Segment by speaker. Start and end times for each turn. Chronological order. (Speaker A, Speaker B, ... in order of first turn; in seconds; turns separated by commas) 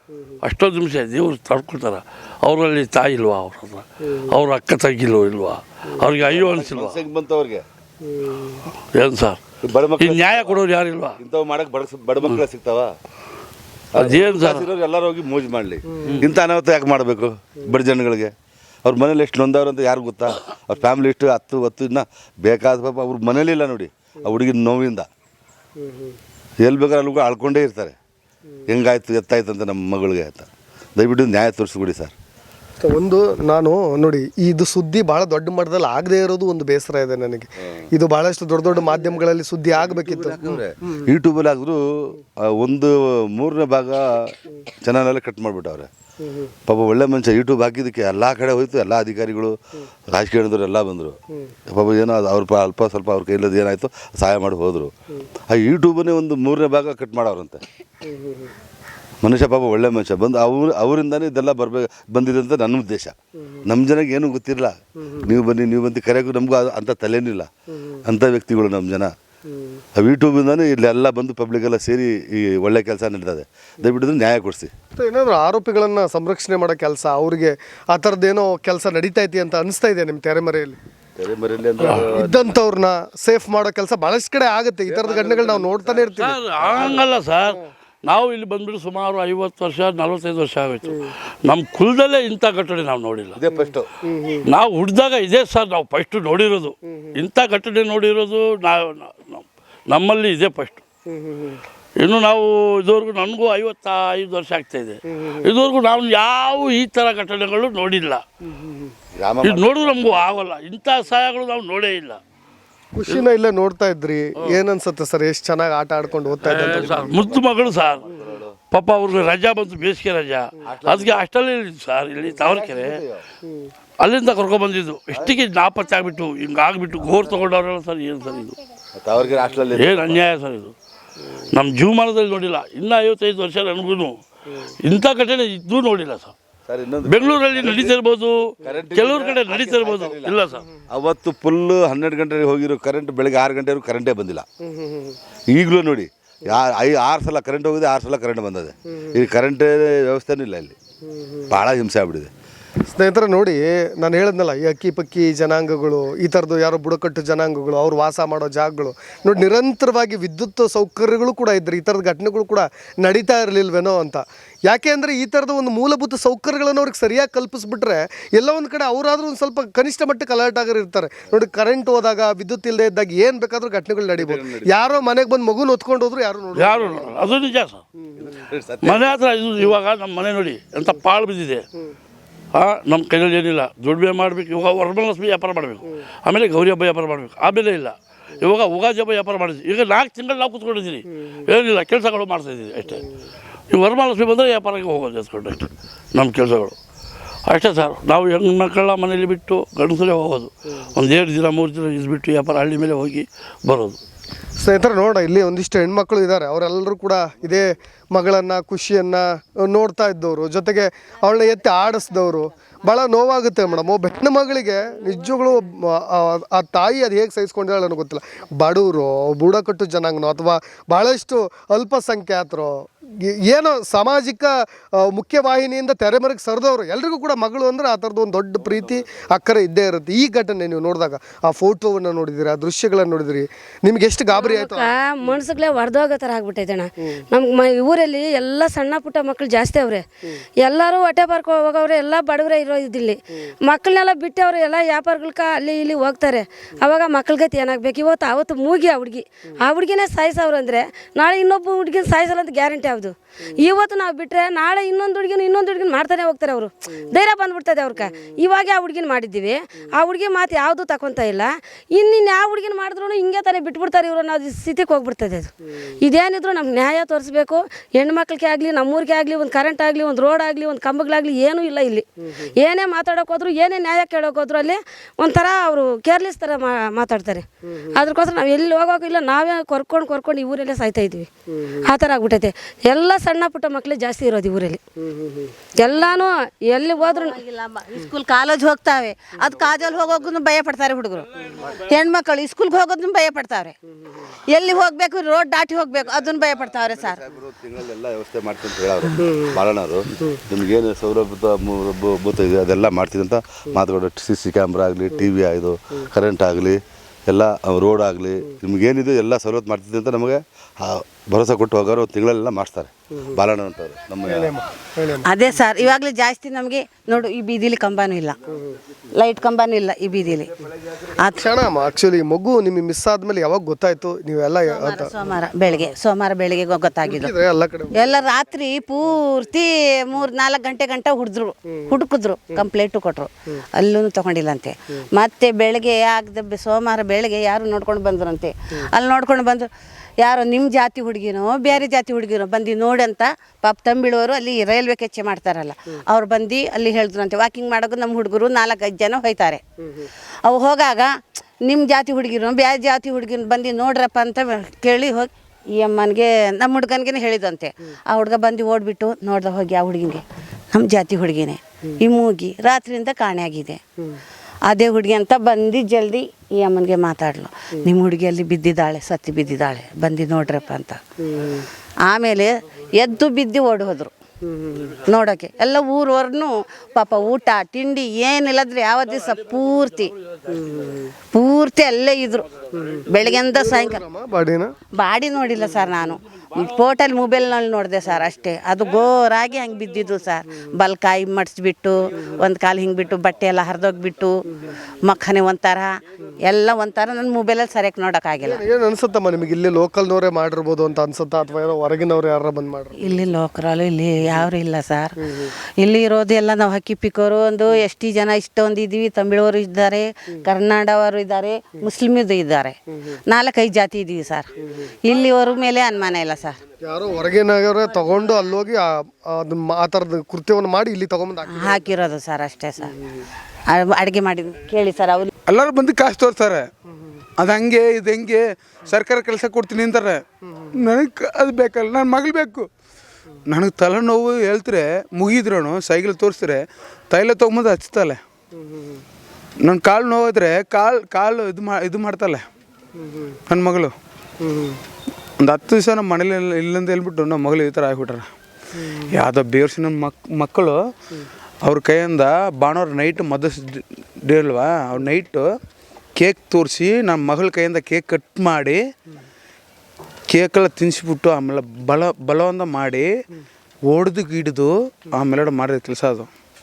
Speaker A: 0.4-7.0, Speaker B: 6.2-7.6, Speaker C: 8.0-8.6, Speaker A: 8.9-9.4, Speaker B: 9.6-10.6, Speaker A: 10.0-11.2, Speaker B: 11.2-12.9, Speaker B: 13.9-18.3, Speaker A: 13.9-14.7, Speaker B: 18.8-25.1, Speaker C: 25.8-26.1, Speaker B: 26.6-27.9, Speaker B: 28.7-32.1, Speaker C: 32.8-41.0, Speaker B: 39.7-45.9, Speaker B: 46.7-49.5, Speaker B: 50.1-51.2, Speaker B: 51.7-54.9, Speaker B: 55.5-57.6, Speaker C: 58.0-58.5, Speaker B: 59.2-63.1, Speaker B: 63.6-67.5, Speaker B: 68.0-69.1, Speaker B: 69.9-74.7, Speaker C: 75.0-80.8, Speaker B: 81.2-82.4, Speaker C: 81.8-87.0, Speaker B: 84.8-87.0, Speaker A: 86.2-93.4, Speaker B: 93.3-93.9, Speaker C: 93.5-94.5, Speaker A: 94.5-100.8, Speaker C: 101.1-101.6, Speaker A: 102.0-108.2, Speaker C: 105.2-105.5, Speaker C: 108.5-108.9, Speaker B: 109.2-110.0, Speaker A: 109.4-112.2, Speaker C: 112.9-117.1, Speaker B: 116.1-118.5, Speaker A: 116.4-118.0, Speaker A: 118.7-123.0, Speaker B: 120.7-121.2, Speaker B: 122.4-123.2, Speaker A: 124.0-128.6, Speaker B: 129.0-130.2, Speaker A: 129.8-130.7, Speaker A: 131.5-134.2, Speaker A: 134.8-136.3, Speaker B: 136.7-137.9, Speaker A: 137.0-140.7, Speaker B: 138.6-144.4, Speaker C: 144.7-145.2, Speaker B: 145.5-150.7, Speaker C: 151.1-151.4, Speaker B: 151.5-152.3, Speaker C: 152.9-177.2, Speaker B: 174.2-174.8, Speaker A: 176.5-177.8, Speaker C: 178.0-178.3, Speaker B: 178.2-179.2, Speaker A: 178.8-181.6, Speaker A: 182.5-193.1, Speaker A: 193.7-196.8, Speaker A: 197.5-204.0, Speaker C: 204.6-235.4, Speaker D: 234.3-240.0, Speaker D: 240.6-281.3, Speaker D: 281.8-284.8, Speaker D: 285.8-287.4, Speaker E: 287.0-293.7, Speaker E: 294.5-297.2, Speaker B: 296.8-314.5, Speaker C: 299.2-299.5, Speaker C: 314.2-315.6, Speaker E: 315.2-318.4, Speaker E: 319.1-320.5, Speaker E: 321.2-321.5, Speaker C: 321.4-325.3, Speaker E: 324.6-327.3, Speaker C: 327.0-328.2, Speaker E: 327.9-339.7, Speaker C: 331.7-332.0, Speaker E: 340.2-349.6, Speaker E: 350.4-363.8, Speaker E: 364.7-371.0, Speaker C: 371.3-371.7, Speaker E: 372.1-374.1, Speaker C: 374.5-375.0, Speaker E: 375.0-380.1, Speaker C: 380.5-381.1, Speaker E: 381.3-382.5, Speaker C: 382.7-384.7, Speaker E: 383.1-384.0, Speaker E: 384.9-394.4, Speaker E: 395.0-395.9, Speaker E: 396.5-398.6, Speaker C: 398.4-402.9, Speaker E: 402.9-405.1, Speaker E: 405.8-414.5, Speaker E: 415.0-416.6, Speaker C: 416.8-421.9, Speaker E: 421.5-422.9, Speaker E: 423.7-425.3, Speaker F: 425.5-426.7, Speaker F: 427.4-430.2, Speaker F: 430.7-432.7, Speaker F: 433.5-438.2, Speaker C: 438.6-439.0, Speaker F: 439.6-442.4, Speaker C: 443.0-443.3, Speaker F: 443.5-443.9, Speaker C: 444.4-444.8, Speaker F: 445.4-448.3, Speaker F: 449.1-450.8, Speaker F: 451.6-455.5, Speaker F: 456.1-458.8, Speaker F: 460.3-463.1, Speaker F: 463.9-466.3